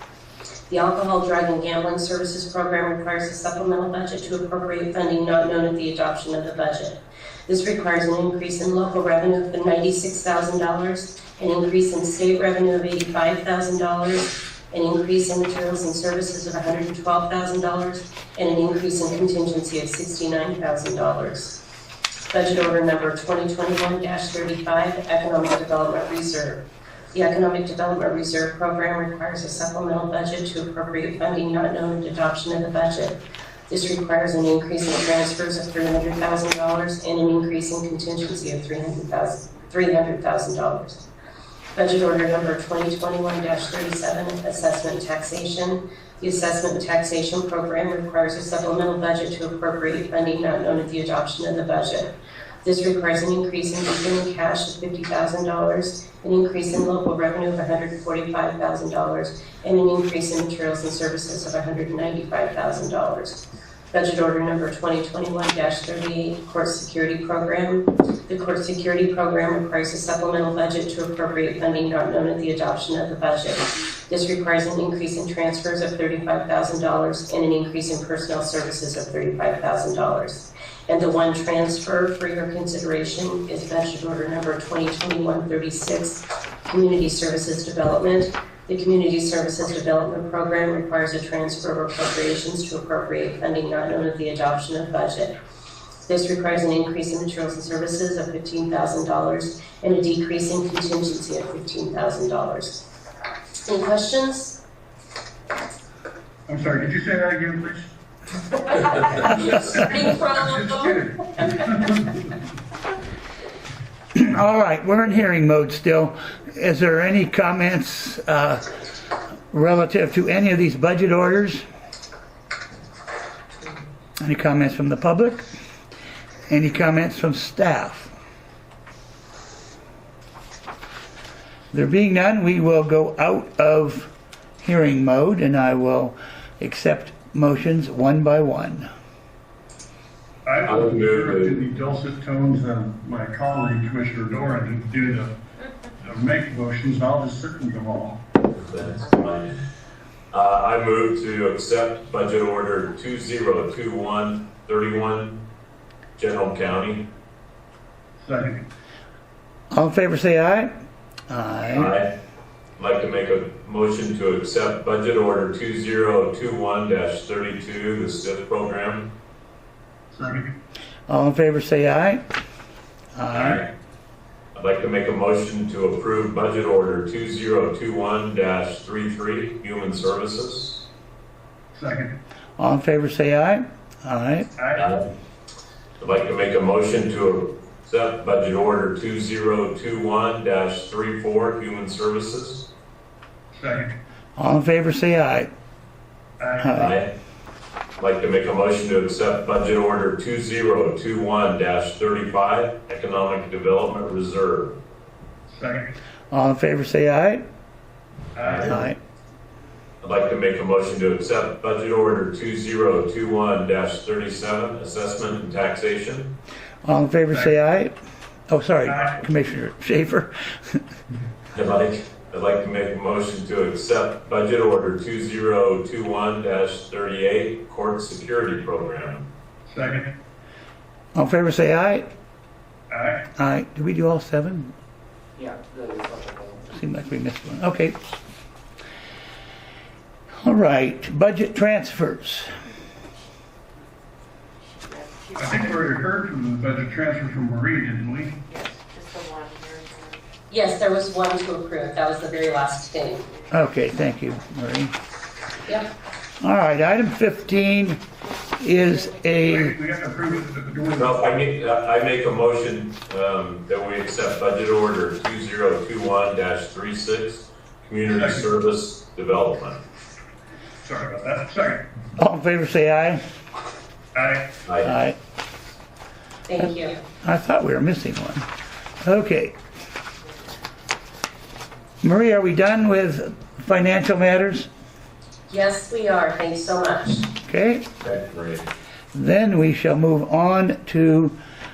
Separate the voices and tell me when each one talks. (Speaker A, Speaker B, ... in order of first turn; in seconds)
Speaker A: 0.7-21.6, 22.3-33.2, 33.7-41.0, 41.8-52.1, 52.6-95.3, 96.0-102.8, 103.6-104.6, 109.2-111.7, 250.5-253.2, 276.5-277.0, 285.5-287.3
Speaker B: 106.5-107.9, 110.2-112.2, 140.4-145.3, 146.0-148.2, 158.2-158.7, 170.1-170.5, 181.7-182.2, 184.6-185.0, 193.5-193.9, 196.4-196.9, 205.5-205.9, 208.3-208.9, 218.8-219.2, 229.7-230.1, 232.9-233.3, 245.4-248.4, 259.4-261.5, 268.1-268.5, 270.8-271.9, 274.1-274.5
Speaker C: 114.1-118.6, 119.5-121.6, 124.2-125.5, 126.5-128.1, 131.7-138.9, 159.7-160.7, 161.3-161.9, 171.1-172.2, 173.2-173.6, 182.6-184.5, 194.4-195.5, 196.6-196.9, 206.3-207.4, 208.6-209.0, 216.8-217.9, 218.5-220.8, 231.1-232.1, 233.4-234.7, 236.7-238.2, 240.4-242.5, 253.5-254.9, 256.4-258.0, 258.6-259.8, 272.2-273.2, 274.8-275.2, 277.2-278.5, 279.0-279.6, 282.0-284.7, 287.4-287.9, 289.1-291.4
Speaker D: 140.6-141.7, 148.5-149.6, 150.3-155.4, 156.2-157.1, 161.7-162.1, 162.8-169.1, 173.3-173.7, 174.6-180.9, 184.8-185.1, 186.0-192.7, 196.8-197.1, 198.0-204.8, 208.4-208.8, 210.0-216.4, 221.5-229.3, 261.0-269.8, 274.7-274.9, 288.0-288.7
Speaker E: 244.7-245.7, 248.5-250.2, 258.8-259.3